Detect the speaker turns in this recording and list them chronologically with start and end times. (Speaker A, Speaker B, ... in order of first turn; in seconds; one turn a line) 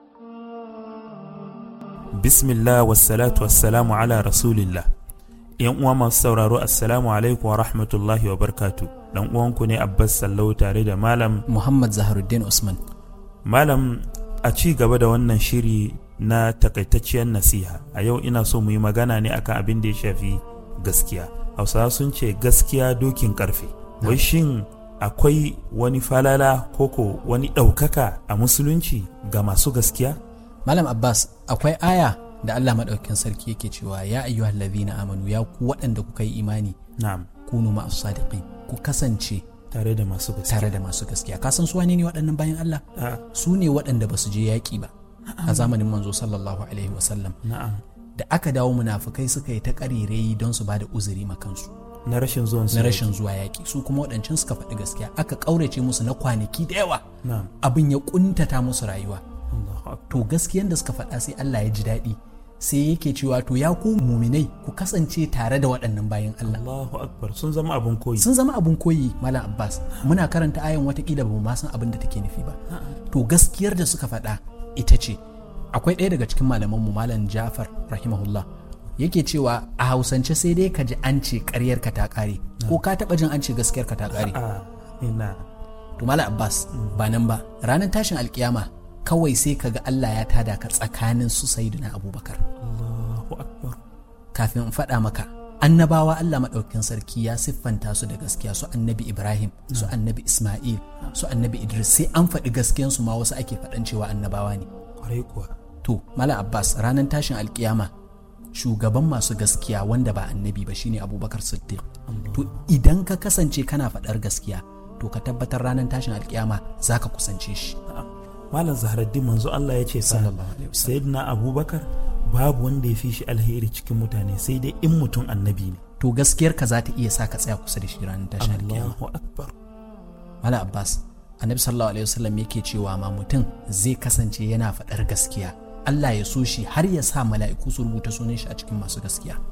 Speaker A: 2.2-4.9
Speaker A: 5.6-11.4
Speaker B: 11.5-12.8
Speaker A: 13.4-30.2
Speaker B: 24.0-24.3
Speaker B: 30.7-36.8
Speaker A: 37.0-37.3
Speaker B: 37.5-39.5
Speaker A: 39.7-40.8
Speaker B: 40.5-42.8
Speaker A: 43.0-43.3
Speaker B: 43.3-44.9
Speaker A: 45.3-45.8
Speaker B: 45.5-47.4
Speaker A: 47.4-47.8
Speaker B: 48.2-51.7
Speaker A: 52.1-53.2
Speaker B: 52.7-57.0
Speaker A: 57.2-57.5
Speaker B: 57.6-59.2
Speaker A: 59.5-60.3
Speaker B: 60.1-66.6
Speaker A: 66.5-68.3
Speaker B: 68.2-72.6
Speaker B: 73.1-75.2
Speaker B: 75.7-78.5
Speaker B: 79.0-84.4
Speaker A: 84.1-85.5
Speaker B: 86.0-92.4
Speaker A: 86.8-87.0
Speaker A: 92.6-93.8
Speaker B: 94.3-104.7
Speaker A: 105.0-105.5
Speaker B: 105.8-107.9
Speaker B: 108.5-117.8
Speaker A: 112.1-112.7
Speaker A: 117.9-125.8
Speaker B: 120.0-121.0
Speaker B: 126.0-129.0
Speaker A: 128.4-129.6
Speaker B: 130.4-139.4